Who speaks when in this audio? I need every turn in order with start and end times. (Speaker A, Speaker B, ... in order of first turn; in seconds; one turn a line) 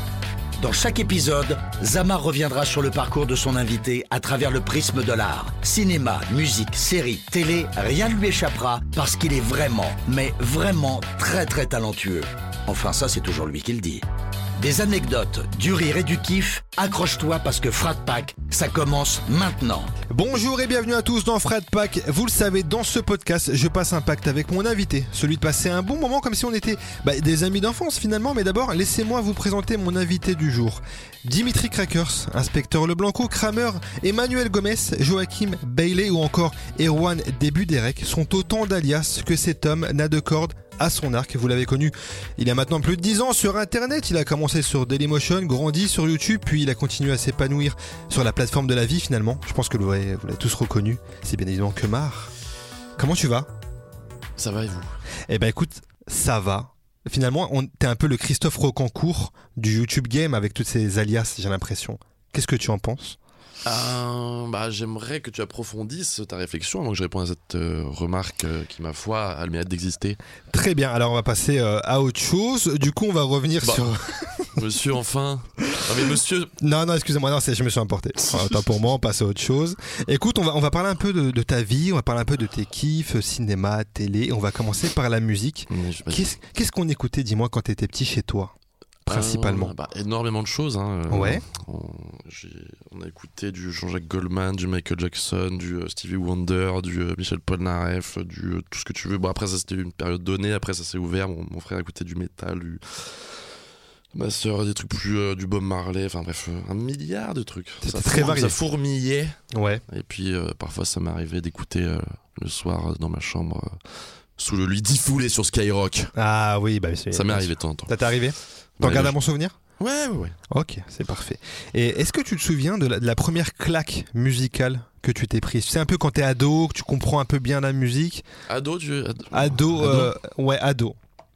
Speaker A: 0.6-14.1
Speaker A: 14.6-19.9
Speaker B: 20.1-52.3
Speaker B: 53.0-53.5
Speaker C: 54.4-54.9
Speaker B: 55.3-63.2
Speaker C: 63.6-70.2
Speaker B: 70.5-74.6
Speaker C: 74.5-76.5
Speaker B: 76.6-89.7
Speaker C: 78.3-78.6
Speaker C: 85.7-86.4
Speaker C: 89.1-103.5
Speaker B: 91.1-91.4
Speaker C: 104.1-116.1
Speaker B: 107.8-108.6
Speaker B: 109.5-109.8
Speaker B: 116.2-119.6
Speaker C: 117.1-118.0
Speaker C: 118.8-119.2
Speaker C: 119.8-120.4
Speaker B: 120.5-128.2
Speaker C: 128.5-130.1
Speaker B: 129.3-131.0